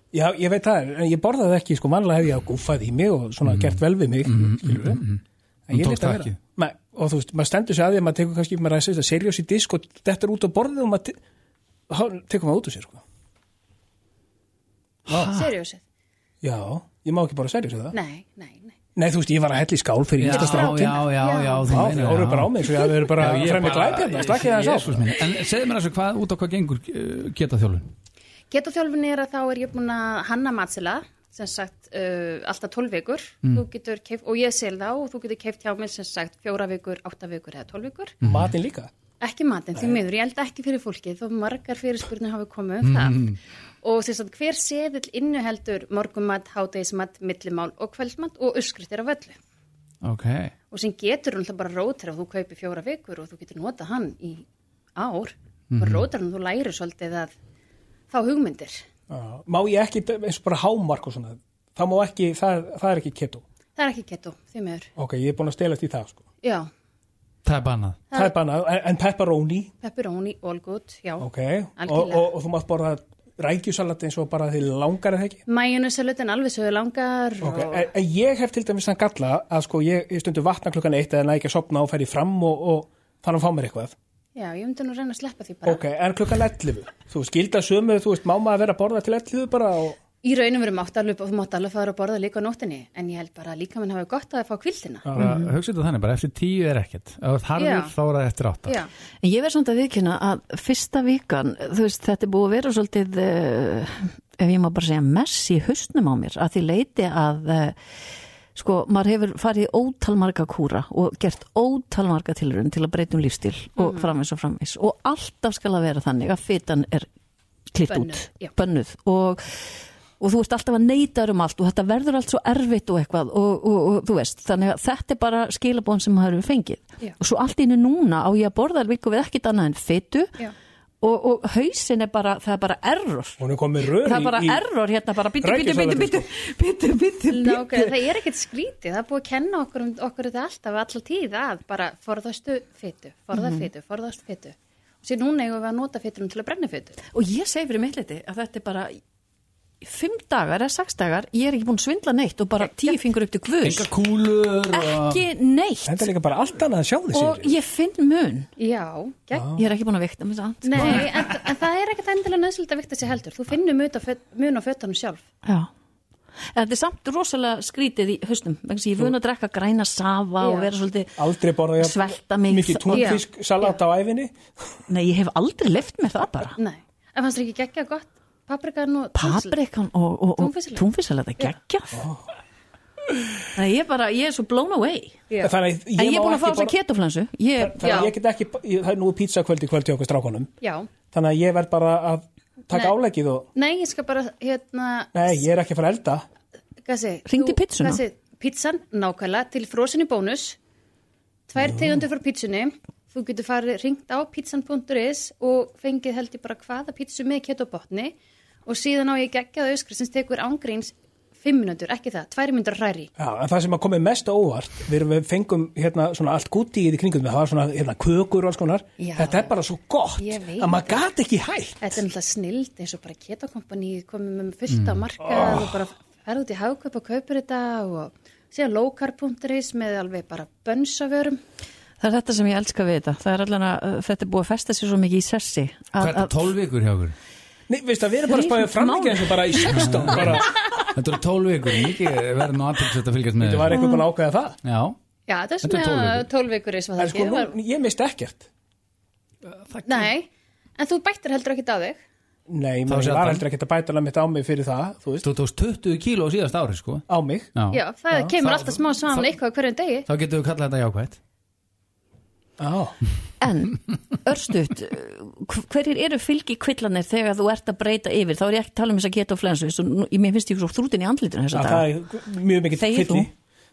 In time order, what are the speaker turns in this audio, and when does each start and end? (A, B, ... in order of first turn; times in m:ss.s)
0:00.1-0:05.0 A
0:03.5-0:06.4 B
0:05.7-0:11.2 A
0:11.9-0:13.0 A
0:15.1-0:15.5 B
0:15.3-0:15.8 C
0:16.4-0:18.0 A
0:17.9-0:18.8 C
0:19.0-0:21.0 A
0:20.2-0:27.9 B
0:20.3-0:21.8 C
0:21.7-0:25.2 A
0:28.5-0:38.2 C
0:38.2-0:38.5 B
0:38.2-0:38.9 A
0:39.2-0:49.4 C
0:42.8-0:43.4 B
0:50.0-0:50.5 B
0:50.7-0:54.4 C
0:55.0-0:57.3 C
0:55.7-0:56.1 B
0:58.1-0:58.8 C
0:59.1-1:03.4 A
1:03.8-1:04.9 C
1:05.0-1:06.2 A
1:06.4-1:06.7 C
1:07.4-1:08.0 B
1:08.1-1:09.7 A
1:09.8-1:11.3 C
1:11.2-1:15.4 A
1:11.8-1:12.3 C
1:15.5-1:17.9 C
1:17.4-1:23.9 A
1:24.4-1:25.8 C
1:25.7-1:30.0 A
1:30.2-1:35.1 C
1:35.0-1:35.4 A
1:35.2-1:38.8 B
1:35.2-1:35.5 D
1:37.6-1:37.9 C
1:38.6-1:38.9 C
1:39.2-1:47.8 D
1:48.6-1:57.1 D
1:53.8-1:54.1 C
1:57.7-2:10.4 D
1:57.9-1:58.5 C
2:11.0-2:13.4 D
2:13.4-2:14.6 A
2:13.9-2:18.0 D
2:15.4-2:16.2 A
2:17.3-2:27.0 C
2:23.3-2:23.7 D
2:27.1-2:29.0 D
2:29.8-2:33.9 D
2:33.6-2:35.2 B
2:34.7-2:36.1 D
2:35.8-2:37.5 A
2:37.1-2:38.5 D
2:38.6-2:39.6 C
2:39.3-2:39.6 A
2:39.6-2:41.1 D
2:40.6-2:45.3 C
2:45.4-2:45.7 D
2:46.5-2:53.2 D
2:50.4-2:50.7 C
2:51.2-2:54.8 A
2:52.9-2:53.2 C
2:54.9-2:56.6 D
2:56.6-2:59.6 C
2:59.2-3:02.1 D
3:00.4-3:00.8 C
3:01.9-3:02.3 A
3:03.5-3:05.3 D
3:05.3-3:05.6 C
3:05.4-3:06.8 A
3:06.0-3:08.0 D
3:07.6-3:10.5 A
3:07.8-3:08.2 C
3:10.6-3:10.9 C
3:11.1-3:13.5 A
3:13.6-3:15.2 C
3:15.1-3:16.2 A
3:16.8-3:20.6 C
3:17.3-3:18.0 D
3:21.5-3:28.1 C
3:28.7-3:33.1 C
3:33.2-3:42.0 A
3:39.0-3:39.6 C
3:40.2-3:41.0 C
3:41.8-3:51.4 C
3:44.8-3:45.6 B
3:52.0-3:56.4 D
3:56.0-3:57.2 B
3:57.7-4:00.5 A
3:58.3-4:00.0 D
4:00.0-4:03.8 B
4:03.4-4:04.6 A
4:03.7-4:04.1 D
4:04.6-4:05.0 B
4:05.3-4:07.5 C
4:05.6-4:06.3 B
4:07.0-4:08.5 A
4:09.4-4:10.1 B
4:09.8-4:12.0 C
4:12.5-4:15.3 A
4:12.9-4:13.4 B
4:15.2-4:17.0 B
4:17.1-4:17.5 A
4:17.6-4:19.3 B
4:17.7-4:20.1 C
4:20.1-4:21.2 B
4:22.6-4:23.0 A
4:23.4-4:31.9 D
4:31.5-4:33.3 A
4:32.8-4:33.3 D